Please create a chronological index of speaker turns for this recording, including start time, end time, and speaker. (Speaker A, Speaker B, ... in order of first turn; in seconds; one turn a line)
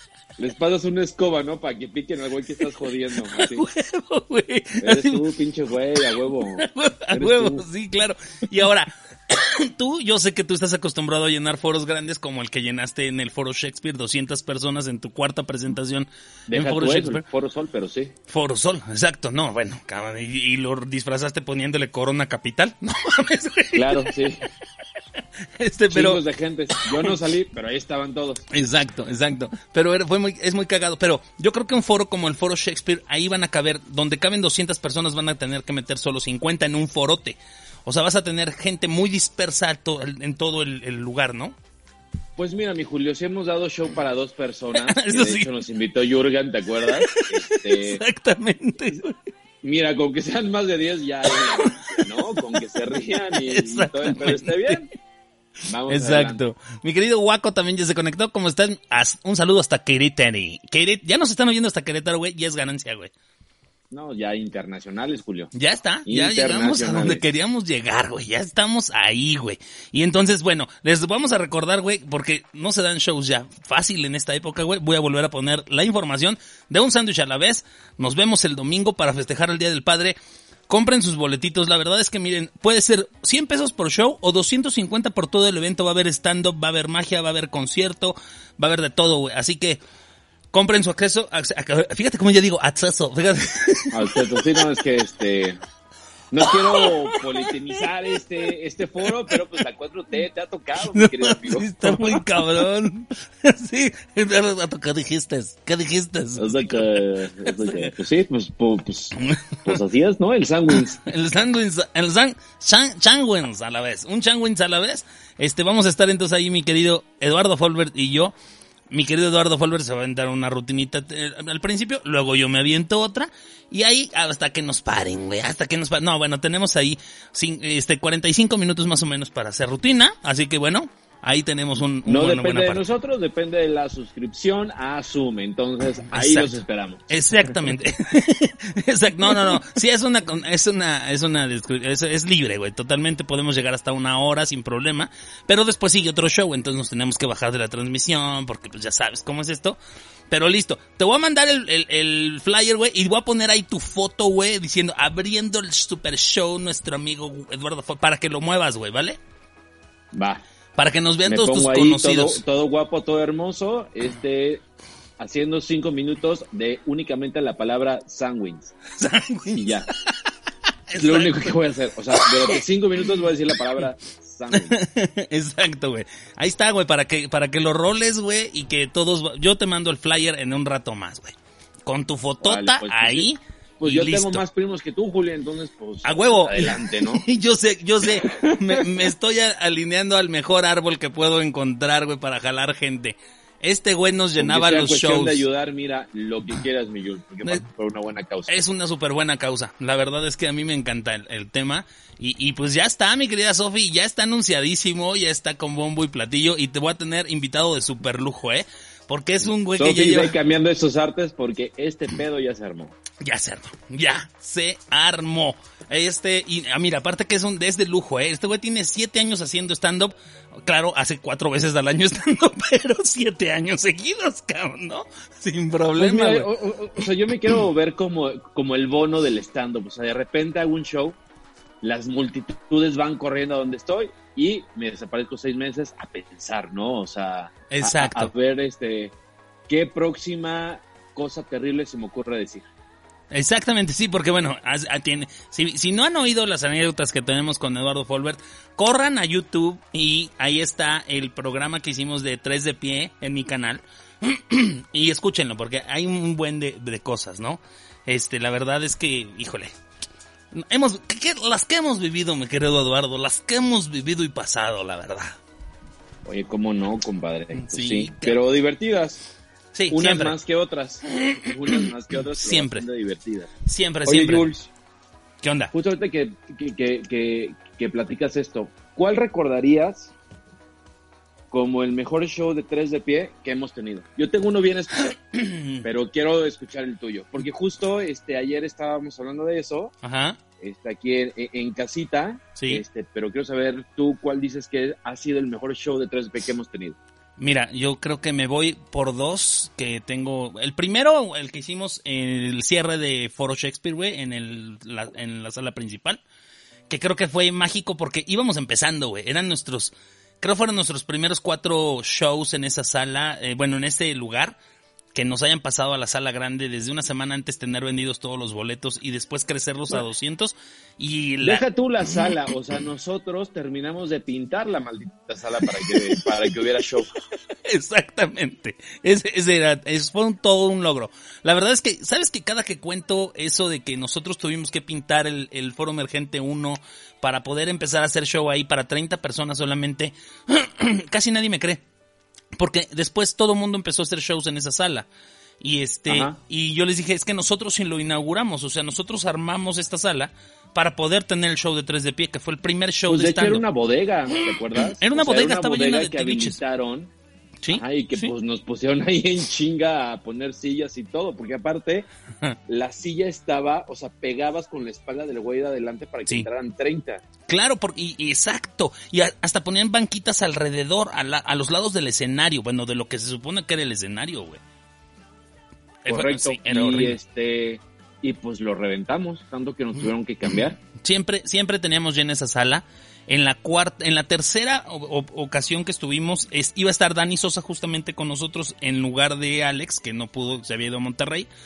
Speaker A: 0.4-3.6
Speaker B: 3.3-5.2
Speaker A: 4.8-7.6
Speaker B: 6.6-17.2
Speaker A: 16.5-18.1
Speaker B: 18.3-24.1
Speaker A: 23.7-24.4
Speaker B: 25.6-26.2
Speaker A: 25.9-28.4
Speaker B: 26.9-27.1
Speaker B: 28.5-41.5
Speaker A: 42.4-48.0
Speaker B: 44.7-45.5
Speaker B: 46.9-49.3
Speaker A: 49.6-54.9
Speaker B: 51.2-54.8
Speaker A: 55.7-56.4
Speaker B: 55.9-63.1
Speaker A: 63.9-65.5
Speaker B: 65.5-80.2
Speaker A: 66.1-67.2
Speaker B: 80.7-89.8
Speaker B: 90.5-94.6
Speaker A: 93.9-95.6
Speaker A: 96.3-102.2
Speaker B: 96.4-97.8
Speaker B: 100.8-107.9
Speaker A: 106.4-111.0
Speaker B: 109.2-109.8
Speaker B: 110.7-118.3
Speaker B: 118.9-132.8
Speaker A: 132.1-137.0
Speaker B: 136.1-136.5
Speaker B: 137.1-149.8
Speaker B: 150.3-159.2
Speaker A: 160.1-160.4
Speaker B: 160.8-162.4
Speaker A: 161.3-164.6
Speaker A: 165.2-168.7
Speaker B: 168.9-170.1
Speaker A: 169.5-169.9
Speaker B: 170.9-171.6
Speaker A: 170.9-174.7
Speaker B: 172.1-172.6
Speaker B: 174.5-181.3
Speaker B: 181.8-184.4
Speaker A: 182.4-183.3
Speaker A: 183.8-187.2
Speaker B: 186.0-195.4
Speaker A: 188.3-188.8
Speaker A: 194.4-198.5
Speaker B: 198.5-210.3
Speaker A: 209.7-212.9
Speaker B: 213.2-226.5
Speaker A: 226.0-231.2
Speaker A: 231.8-239.1
Speaker B: 237.7-238.3
Speaker A: 239.7-242.7
Speaker B: 243.3-259.7
Speaker B: 260.5-265.4
Speaker A: 266.2-269.2
Speaker B: 267.5-268.4
Speaker B: 269.7-270.4
Speaker A: 269.9-273.5
Speaker B: 271.2-271.8
Speaker B: 272.4-272.8
Speaker B: 273.6-274.5
Speaker A: 274.1-274.7
Speaker B: 275.4-275.7
Speaker A: 275.7-280.1
Speaker A: 281.5-285.2
Speaker B: 285.3-285.8
Speaker A: 285.8-289.9
Speaker B: 290.0-290.4
Speaker A: 290.6-297.0
Speaker B: 292.6-292.8
Speaker B: 297.4-306.2
Speaker B: 306.9-314.5
Speaker B: 315.1-322.4
Speaker A: 321.4-327.1
Speaker B: 325.6-326.2
Speaker B: 327.5-341.8
Speaker B: 342.6-345.1
Speaker B: 345.6-353.6
Speaker A: 346.1-346.4
Speaker A: 353.1-357.1
Speaker B: 354.7-356.6
Speaker B: 357.6-358.3
Speaker A: 357.7-362.1
Speaker A: 362.7-367.2
Speaker B: 367.5-374.6
Speaker B: 376.0-377.1
Speaker A: 376.1-380.8
Speaker B: 381.0-391.5